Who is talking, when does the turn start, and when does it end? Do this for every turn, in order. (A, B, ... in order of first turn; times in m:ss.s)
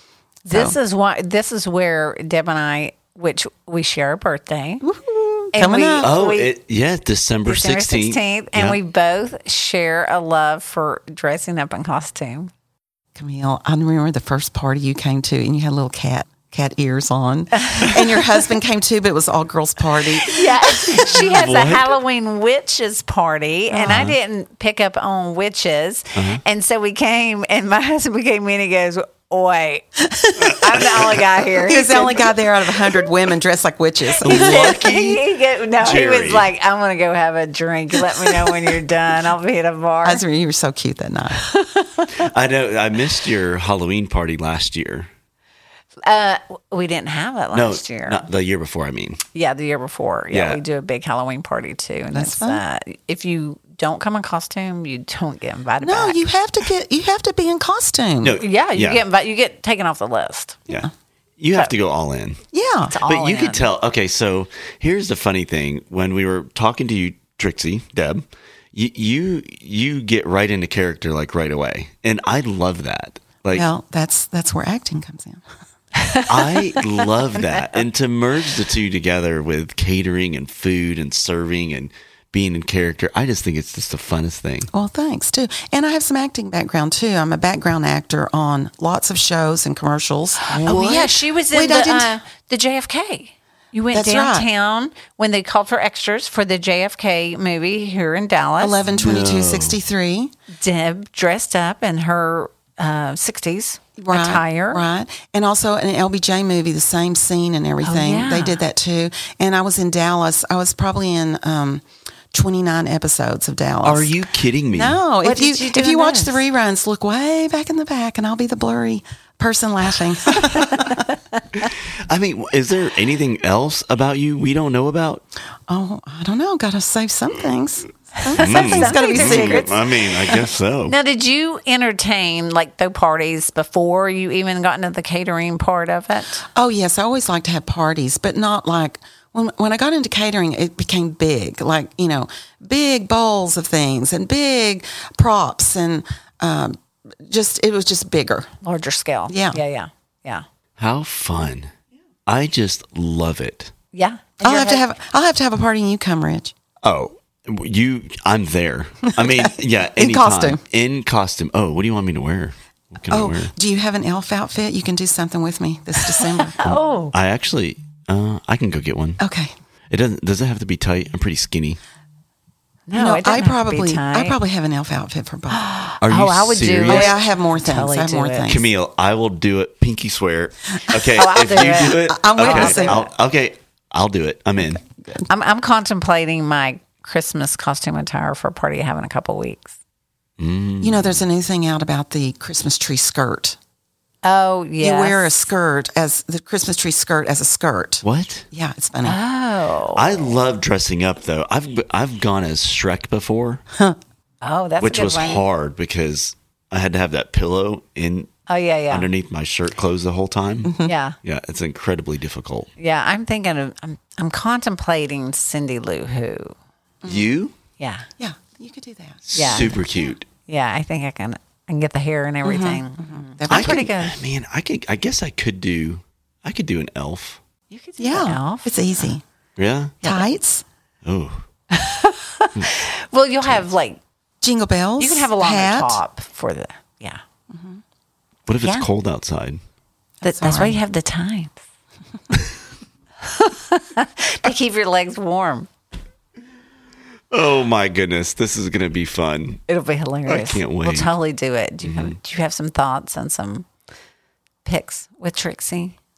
0:00.5-0:04.8 A
0:00.5-0:00.8 B
0:04.8-0:06.1 B
0:05.5-0:06.5 A
0:06.0-0:08.8 C
0:07.4-0:12.5 A
0:13.2-0:21.2 B
0:20.2-0:32.4 A
0:21.1-0:22.0 C
0:23.7-0:24.1 B
0:23.9-0:24.2 C
0:26.2-0:26.4 C
0:30.1-0:30.9 B
0:30.5-0:31.1 C
0:31.6-0:34.8 B
0:34.2-0:36.5 C
0:34.2-0:40.2 A
0:38.2-0:38.6 B
0:40.0-0:41.4 B
0:41.4-0:42.2 A
0:42.1-0:45.1 C
0:46.0-0:48.3 A
0:47.5-0:49.2 C
0:49.3-0:56.2 A
0:50.3-0:50.6 C
0:52.1-0:52.6 B
0:55.8-0:58.4 B
0:58.2-0:59.0 C
0:58.4-1:00.6 A
1:00.7-1:02.4 C
1:02.5-1:03.0 B
1:02.9-1:03.7 A
1:03.0-1:13.7 C
1:13.5-1:15.4 B
1:16.0-1:16.8 A
1:16.3-1:24.7 C
1:24.7-1:30.9 B
1:30.5-1:38.8 A
1:30.5-1:31.2 C
1:31.5-1:32.1 B
1:33.9-1:34.5 B
1:38.6-1:40.3 B
1:38.9-1:39.8 C
1:40.6-1:44.8 A
1:44.0-1:54.1 B
1:47.8-1:48.6 A
1:53.8-1:55.0 C
1:54.7-2:01.1 B
1:55.2-1:56.4 A
2:00.5-2:01.1 A
2:01.6-2:05.2 C
2:05.7-2:10.4 B
2:08.2-2:09.8 A
2:08.3-2:11.0 C
2:10.9-2:16.4 A
2:16.5-2:28.5 B
2:28.6-2:30.4 A
2:29.3-2:29.6 B
2:30.8-2:31.7 C
2:32.3-2:33.7 C
2:33.9-2:34.9 A
2:34.4-2:36.5 B
2:36.8-2:43.5 C
2:39.2-2:40.6 B
2:43.1-2:46.6 B
2:46.2-2:47.1 A
2:47.1-2:49.2 C
2:49.2-2:49.5 B
2:49.9-2:51.8 C
2:52.9-2:54.4 A
2:53.0-2:55.6 B
2:55.5-2:58.5 A
2:56.0-2:57.2 C
2:56.9-2:58.7 B
2:58.5-3:04.8 C
3:00.9-3:03.0 B
3:01.1-3:03.1 A
3:04.8-3:05.2 B
3:05.3-3:09.7 A
3:10.4-3:11.2 C
3:10.8-3:13.6 B
3:14.2-3:15.3 A
3:14.8-3:19.2 B
3:18.0-3:18.5 C
3:19.0-3:20.2 A
3:20.0-3:23.6 C
3:24.4-3:25.4 A
3:24.8-3:28.3 C
3:28.5-3:29.1 A
3:28.9-3:32.7 C
3:30.6-3:30.9 B
3:30.8-3:31.2 A
3:32.8-3:36.6 A
3:37.0-3:37.3 B
3:37.1-3:37.5 C
3:37.8-3:38.1 A
3:38.2-3:40.0 B
3:39.3-3:40.3 C
3:39.4-3:39.8 A
3:40.5-3:44.2 A
3:42.4-3:43.9 B
3:43.5-3:47.4 C
3:47.7-3:48.7 A
3:48.0-3:49.2 B
3:49.6-3:50.0 C
3:50.0-3:50.6 B
3:51.0-3:51.4 C
3:51.7-3:54.0 A
3:54.4-3:56.0 B
3:55.0-3:57.2 A
3:57.5-3:57.8 B
3:58.5-3:59.6 C
3:58.6-3:58.9 A
4:00.2-4:00.8 B
4:00.2-4:01.6 A
4:03.2-4:05.7 A
4:07.3-4:09.6 C
4:09.7-4:13.7 A
4:10.3-4:11.1 C
4:11.8-4:12.2 C
4:14.6-4:16.0 A